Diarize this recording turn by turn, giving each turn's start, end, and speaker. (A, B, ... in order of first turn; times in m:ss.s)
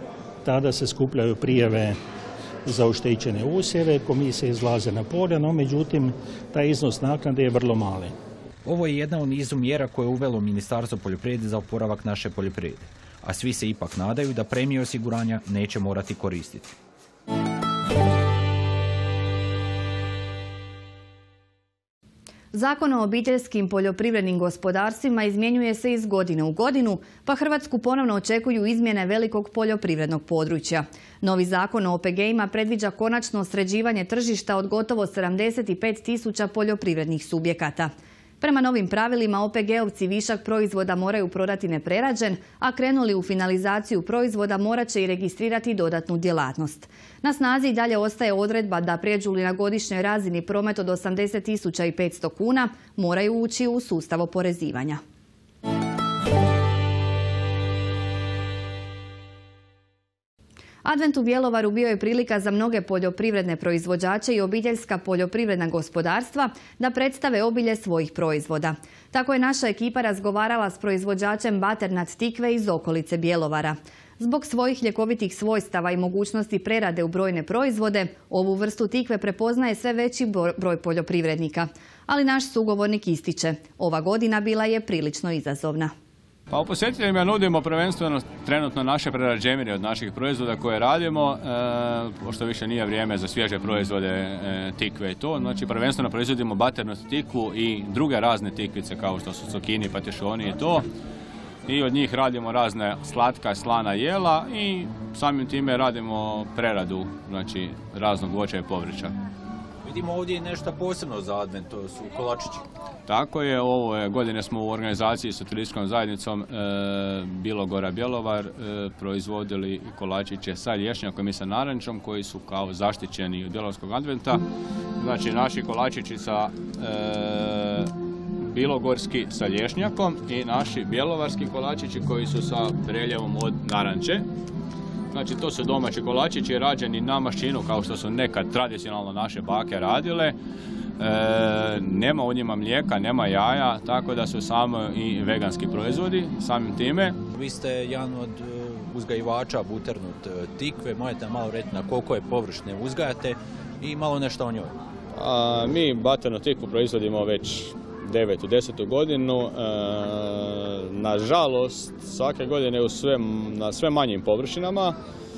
0:00.4-0:02.0 A
0:02.6-0:08.1 A
0:08.6-0:16.8 B
0:22.5-0:55.0 C
1:00.8-1:25.9 C
1:26.5-1:40.8 D
1:41.7-1:49.1 D
1:49.8-1:52.6 B
1:53.1-2:04.4 D
2:05.0-2:14.2 D
2:15.1-2:20.3 D
2:21.0-2:27.2 D
2:27.3-2:34.8 B
2:35.1-2:45.0 D